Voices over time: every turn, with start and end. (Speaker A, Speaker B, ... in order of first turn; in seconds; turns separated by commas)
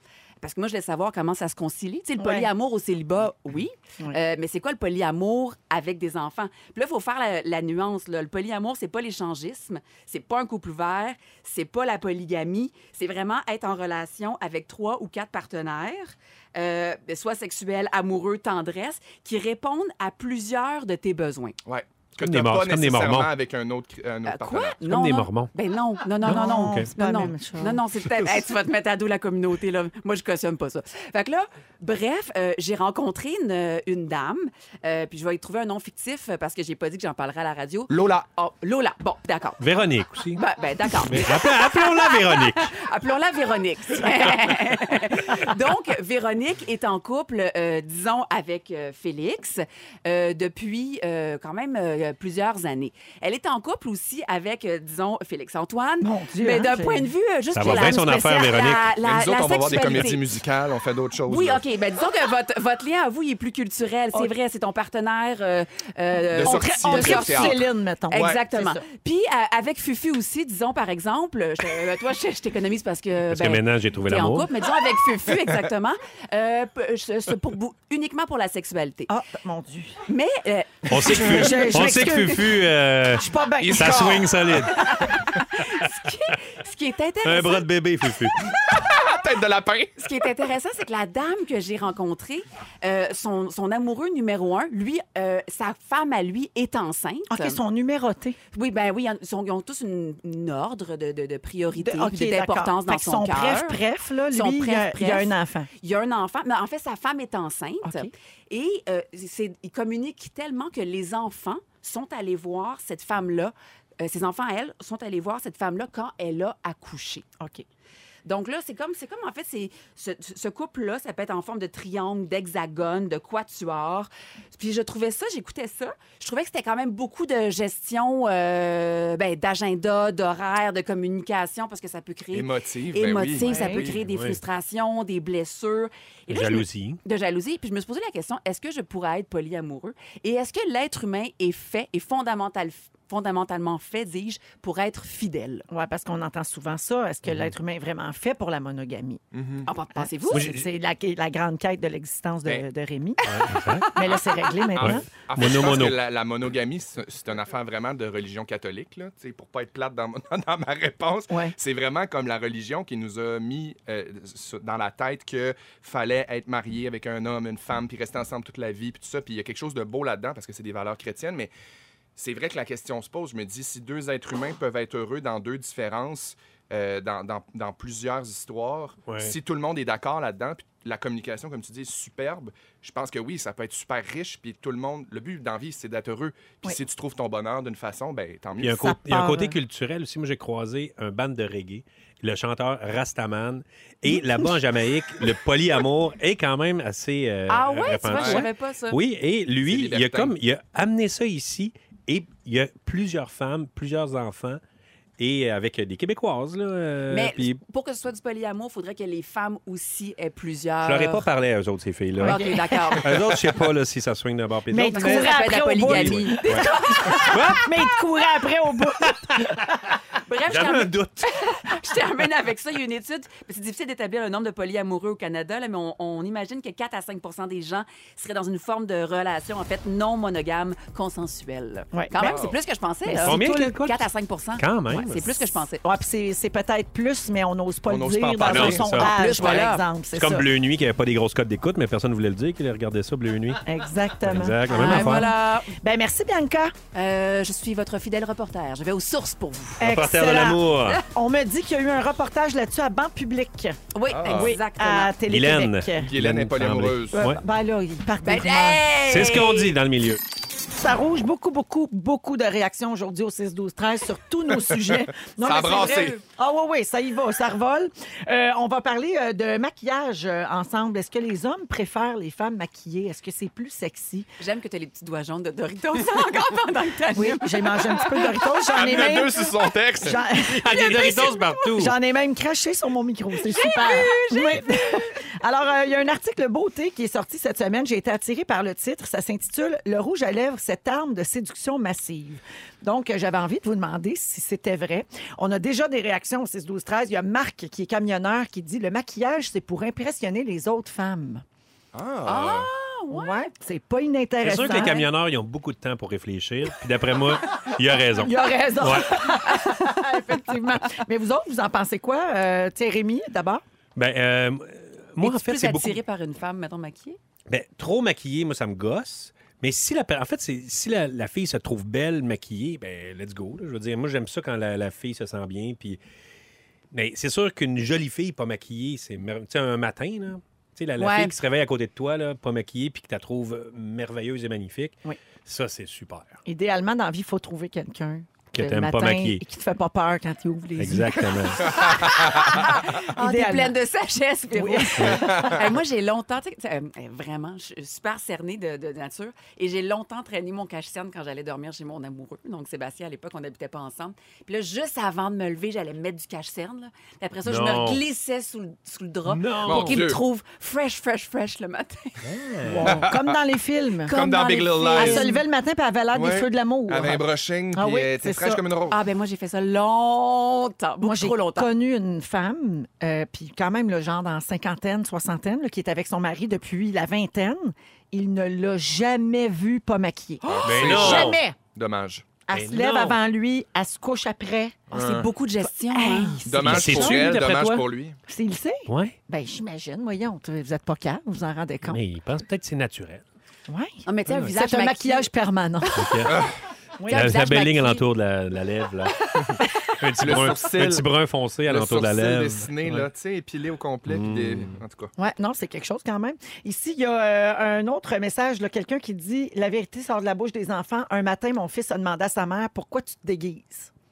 Speaker A: 0.4-21.6, Speaker B: 2.2-2.5, Speaker C: 21.6-24.8, Speaker D: 22.2-23.3, Speaker A: 24.2-39.6, Speaker D: 24.8-25.5, Speaker B: 26.2-27.8, Speaker D: 26.3-26.9, Speaker C: 37.9-38.2, Speaker D: 39.6-42.7, Speaker A: 40.3-60.3, Speaker B: 56.0-57.1, Speaker D: 57.5-58.9, Speaker C: 59.0-61.6, Speaker A: 61.3-79.1, Speaker C: 66.3-68.4, Speaker B: 66.4-68.8, Speaker D: 73.3-74.5, Speaker B: 79.1-80.0, Speaker A: 80.1-82.3, Speaker D: 80.9-84.9, Speaker C: 80.9-81.3, Speaker B: 81.1-82.5, Speaker B: 83.2-84.3, Speaker C: 83.6-84.8, Speaker A: 84.7-87.7, Speaker D: 87.2-88.3, Speaker C: 88.5-90.0, Speaker A: 90.0-97.6, Speaker B: 97.3-98.4, Speaker A: 98.5-103.8, Speaker B: 101.7-105.7, Speaker A: 104.3-117.2, Speaker B: 107.8-108.1, Speaker A: 118.2-145.7, Speaker C: 132.3-134.0, Speaker B: 133.4-133.8, Speaker D: 134.0-134.4, Speaker D: 136.3-137.0, Speaker B: 145.7-149.2, Speaker D: 147.2-147.5, Speaker C: 149.3-149.7, Speaker A: 149.6-150.5, Speaker B: 150.0-153.2, Speaker D: 150.3-150.7, Speaker A: 153.2-154.7, Speaker D: 153.2-153.9, Speaker B: 153.9-155.1, Speaker C: 154.7-171.5, Speaker D: 154.8-156.0, Speaker C: 172.1-188.8, Speaker D: 179.1-179.3, Speaker D: 188.6-204.6, Speaker B: 188.8-189.6, Speaker A: 197.5-199.0, Speaker C: 198.1-198.5, Speaker C: 199.6-200.3, Speaker D: 205.2-207.6, Speaker A: 207.1-211.3, Speaker D: 210.8-217.7, Speaker B: 212.2-213.0, Speaker A: 212.2-213.3, Speaker B: 214.7-219.6, Speaker A: 214.9-217.5, Speaker D: 219.0-219.6, Speaker A: 220.2-235.8, Speaker D: 220.5-221.3, Speaker B: 231.9-232.3, Speaker C: 232.2-232.6, Speaker B: 233.1-233.5, Speaker D: 233.2-234.1, Speaker D: 234.6-235.4, Speaker B: 235.8-240.4, Speaker C: 237.9-238.9, Speaker D: 238.4-239.5, Speaker A: 238.9-239.8, Speaker D: 240.1-243.6, Speaker B: 243.6-246.7, Speaker D: 244.2-245.3, Speaker A: 244.7-245.7, Speaker A: 246.9-249.8, Speaker B: 249.8-256.1, Speaker D: 249.8-251.0, Speaker A: 253.9-255.1, Speaker C: 254.1-254.6, Speaker D: 255.3-257.4, Speaker C: 256.0-257.2, Speaker B: 257.1-258.8, Speaker A: 258.2-259.7, Speaker D: 259.1-260.2, Speaker B: 260.7-274.3, Speaker C: 264.7-266.2, Speaker A: 265.6-266.2, Speaker A: 274.4-278.8, Speaker B: 277.1-301.4, Speaker C: 278.7-280.6, Speaker D: 280.5-281.9, Speaker A: 280.6-281.7, Speaker A: 283.4-285.1, Speaker C: 301.9-302.7, Speaker A: 302.2-303.4, Speaker B: 303.1-305.1, Speaker D: 304.4-309.2, Speaker B: 308.2-313.6, Speaker A: 309.1-310.3, Speaker D: 313.9-316.0, Speaker A: 315.2-317.2, Speaker D: 317.5-326.0, Speaker D: 326.9-336.4, Speaker A: 331.0-331.3, Speaker B: 336.4-343.8, Speaker D: 338.5-339.4, Speaker D: 340.8-341.7, Speaker A: 341.6-362.3, Speaker B: 344.5-345.7, Speaker C: 345.1-345.6, Speaker D: 357.4-358.0, Speaker D: 359.3-360.1, Speaker C: 359.6-360.2, Speaker D: 362.2-363.0, Speaker B: 362.6-364.1, Speaker C: 362.9-363.2, Speaker A: 364.0-365.4, Speaker C: 364.1-365.3, Speaker B: 364.9-368.6, Speaker C: 366.1-369.0, Speaker A: 368.9-371.7, Speaker B: 371.0-381.6, Speaker C: 380.4-382.3, Speaker A: 380.5-381.4, Speaker D: 380.6-381.4, Speaker B: 382.5-384.8, Speaker D: 382.5-383.2, Speaker C: 384.9-385.3, Speaker A: 384.9-386.4, Speaker B: 385.6-392.0, Speaker C: 386.4-388.2, Speaker D: 386.6-387.8, Speaker D: 388.9-389.1, Speaker D: 391.8-393.2, Speaker B: 393.7-396.3, Speaker A: 394.0-395.3, Speaker D: 395.9-396.5, Speaker B: 397.0-397.3, Speaker A: 397.0-398.0, Speaker D: 397.1-403.1, Speaker C: 400.2-401.1, Speaker C: 401.7-405.1, Speaker D: 404.1-404.8, Speaker B: 405.2-413.9